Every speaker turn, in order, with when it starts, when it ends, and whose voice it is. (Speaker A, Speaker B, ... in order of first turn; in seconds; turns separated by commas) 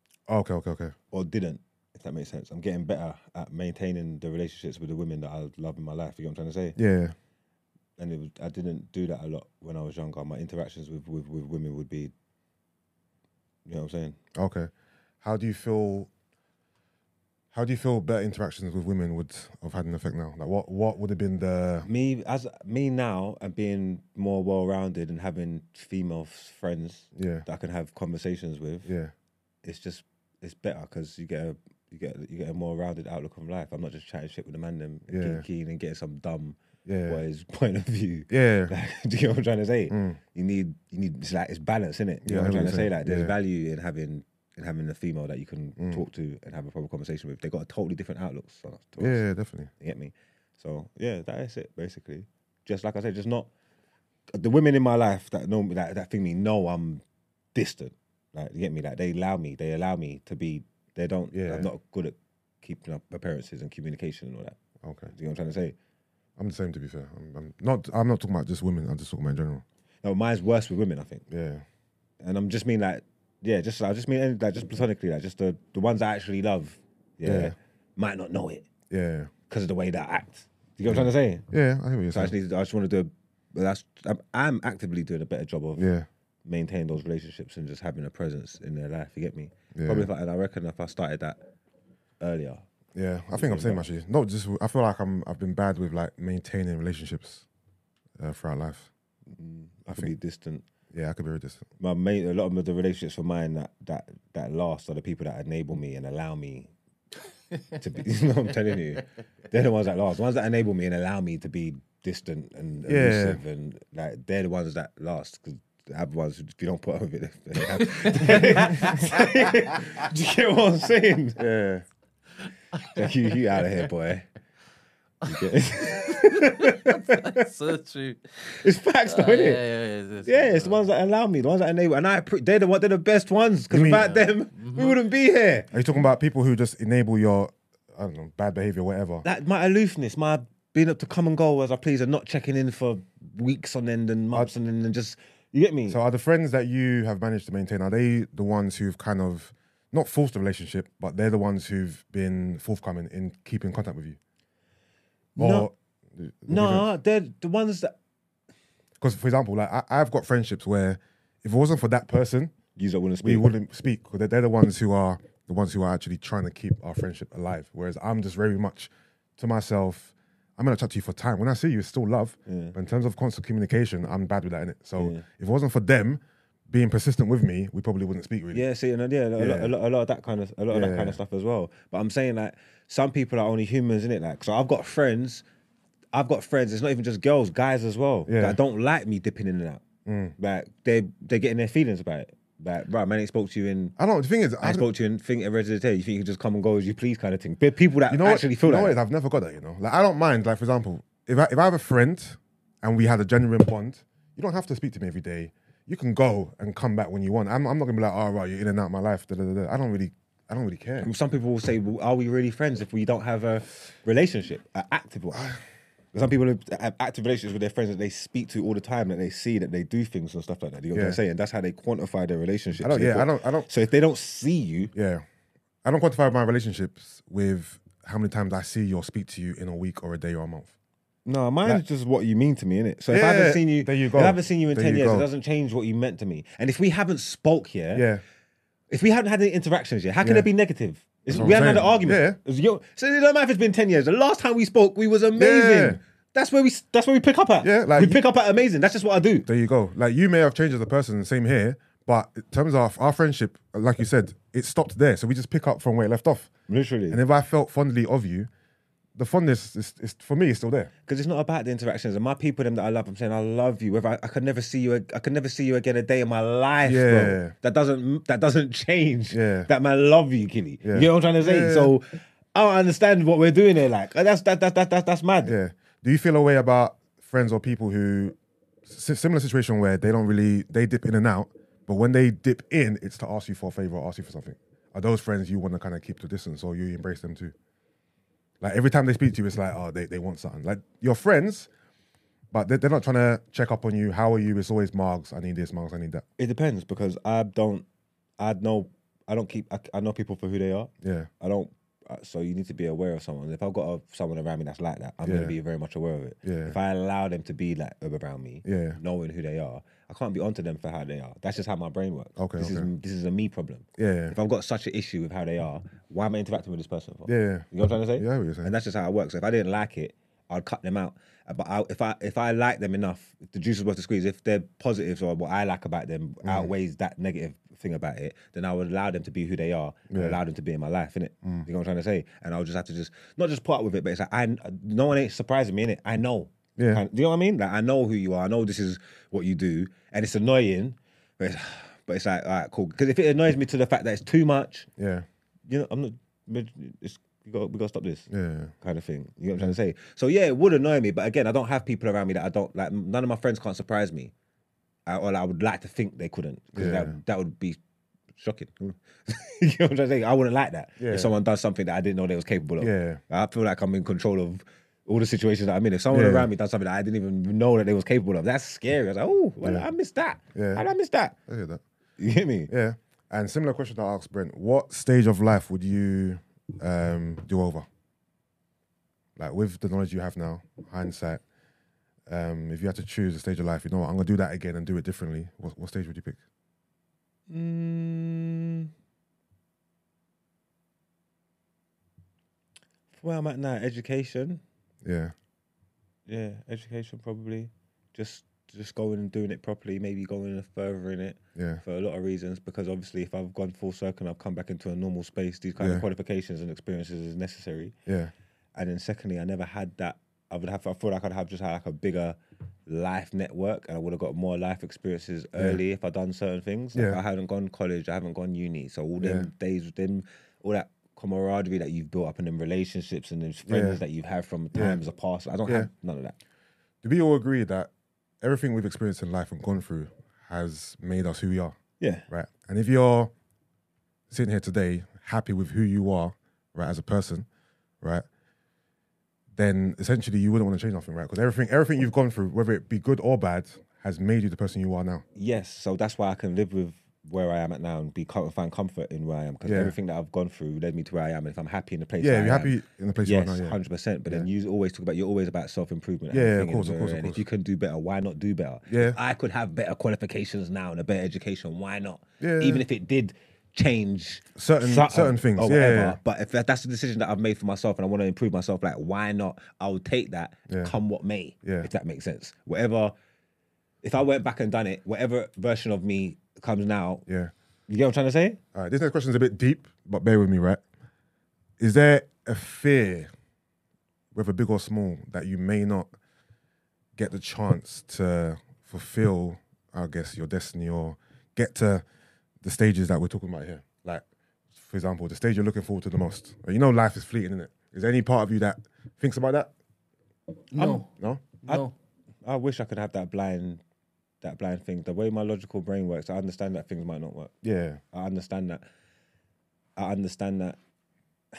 Speaker A: 0.3-0.9, Speaker B: 1.1-6.8, Speaker A: 6.8-7.1, Speaker B: 8.0-12.1, Speaker B: 13.7-14.2, Speaker A: 14.3-14.7, Speaker A: 15.2-16.1, Speaker A: 17.5-21.9, Speaker B: 21.8-28.9, Speaker A: 27.1-27.4, Speaker A: 28.8-29.1, Speaker B: 29.6-49.2, Speaker A: 35.1-35.4, Speaker A: 36.8-37.2, Speaker A: 38.3-38.7, Speaker A: 39.9-40.2, Speaker A: 42.2-43.3, Speaker A: 45.8-46.0, Speaker A: 49.0-49.7, Speaker B: 49.8-53.5, Speaker B: 54.3-57.0, Speaker B: 57.5-64.5, Speaker A: 61.3-61.7, Speaker A: 64.8-65.1, Speaker B: 65.1-65.7, Speaker A: 66.4-69.6, Speaker B: 70.0-71.2, Speaker A: 71.3-71.6, Speaker B: 72.2-78.7, Speaker A: 77.2-77.5, Speaker A: 78.9-79.3, Speaker B: 79.5-81.5, Speaker A: 80.9-82.3, Speaker B: 82.1-85.9, Speaker A: 85.8-86.1, Speaker B: 86.4-91.4, Speaker A: 89.7-90.1, Speaker B: 92.2-92.6, Speaker A: 92.9-97.5, Speaker B: 93.3-93.8, Speaker A: 98.2-98.9, Speaker B: 99.3-100.6, Speaker A: 100.9-101.7, Speaker B: 101.8-106.7, Speaker B: 107.8-121.4, Speaker A: 112.8-113.4, Speaker C: 117.8-119.6, Speaker A: 121.4-121.8, Speaker C: 122.7-123.0, Speaker B: 122.9-124.3, Speaker C: 125.2-128.2, Speaker B: 125.2-127.4, Speaker B: 128.4-129.6, Speaker C: 129.1-130.8, Speaker B: 130.2-135.7, Speaker A: 133.7-134.2, Speaker C: 133.9-135.0, Speaker A: 135.7-139.2, Speaker B: 139.2-146.0, Speaker A: 145.9-154.2, Speaker B: 155.3-155.7, Speaker A: 155.4-156.9, Speaker B: 156.5-157.9, Speaker A: 159.0-162.5, Speaker B: 162.8-163.5, Speaker A: 163.2-178.6, Speaker B: 172.5-172.7, Speaker B: 175.0-175.2, Speaker B: 178.5-185.4, Speaker A: 179.4-179.7, Speaker A: 180.7-181.2, Speaker B: 186.1-189.8, Speaker A: 188.3-188.6, Speaker A: 190.0-190.3, Speaker B: 190.4-193.9, Speaker A: 194.0-194.9, Speaker B: 194.6-199.0, Speaker A: 198.1-211.1, Speaker B: 211.0-215.5, Speaker A: 215.3-215.6, Speaker B: 216.1-224.9, Speaker A: 220.9-221.2, Speaker A: 222.8-223.7, Speaker A: 224.9-225.2, Speaker A: 225.8-230.7, Speaker B: 231.2-238.1, Speaker A: 233.1-235.3, Speaker A: 237.9-238.2, Speaker B: 238.9-249.5, Speaker A: 240.2-240.5, Speaker A: 241.3-242.4, Speaker A: 245.3-246.0, Speaker A: 247.6-248.2, Speaker A: 249.4-256.5, Speaker B: 256.7-257.2, Speaker A: 257.1-258.5, Speaker A: 259.1-260.9, Speaker B: 261.1-275.5, Speaker A: 266.8-267.5, Speaker A: 269.3-269.7, Speaker A: 270.8-271.9, Speaker A: 275.4-287.5, Speaker A: 288.6-291.7, Speaker A: 292.5-296.2, Speaker B: 296.4-297.8, Speaker B: 298.4-344.9, Speaker A: 301.0-301.3, Speaker A: 305.2-305.6, Speaker A: 306.4-306.8, Speaker A: 308.6-309.0, Speaker A: 312.4-312.9, Speaker A: 314.0-314.4, Speaker A: 317.2-318.7, Speaker A: 326.4-326.7, Speaker A: 330.1-330.4, Speaker A: 336.8-337.0, Speaker A: 345.0-345.2, Speaker B: 345.7-348.3, Speaker A: 348.3-348.7, Speaker B: 348.8-354.3, Speaker B: 355.1-357.8, Speaker A: 356.7-357.2, Speaker B: 358.4-371.4, Speaker A: 361.0-361.3, Speaker A: 362.8-363.2, Speaker A: 366.1-366.5, Speaker A: 369.6-369.9, Speaker A: 370.5-370.9, Speaker A: 371.4-371.8, Speaker B: 372.2-372.7, Speaker A: 372.7-377.9, Speaker A: 379.4-381.4, Speaker A: 382.3-386.4, Speaker B: 387.5-388.9, Speaker B: 393.1-394.6, Speaker A: 395.0-395.3, Speaker B: 396.3-407.9, Speaker A: 401.5-401.8, Speaker A: 405.8-406.0, Speaker A: 408.1-408.3, Speaker B: 408.7-426.4, Speaker A: 415.6-415.8, Speaker A: 416.9-417.2, Speaker A: 419.2-419.5, Speaker A: 423.7-424.0, Speaker A: 424.7-425.0, Speaker A: 427.0-427.9, Speaker A: 428.4-431.8, Speaker B: 432.0-432.2, Speaker A: 432.3-433.3, Speaker A: 434.3-437.5, Speaker A: 439.5-445.2, Speaker B: 445.4-473.1, Speaker A: 449.6-449.9, Speaker A: 452.2-454.5, Speaker A: 456.3-457.4, Speaker A: 458.9-459.2, Speaker A: 462.4-462.8, Speaker A: 464.6-466.2, Speaker A: 470.7-470.9, Speaker A: 471.6-471.9, Speaker B: 474.0-477.2, Speaker A: 477.3-477.5, Speaker B: 477.9-478.6, Speaker A: 478.7-480.8, Speaker A: 481.8-483.3, Speaker A: 484.3-486.1, Speaker A: 487.1-492.0, Speaker A: 492.6-494.2, Speaker A: 494.8-499.7, Speaker C: 500.7-501.1, Speaker B: 500.8-501.0, Speaker A: 501.2-501.5, Speaker C: 501.6-501.9, Speaker B: 502.4-503.8, Speaker B: 504.4-507.5, Speaker A: 507.6-508.0, Speaker B: 508.1-508.8, Speaker B: 510.0-510.8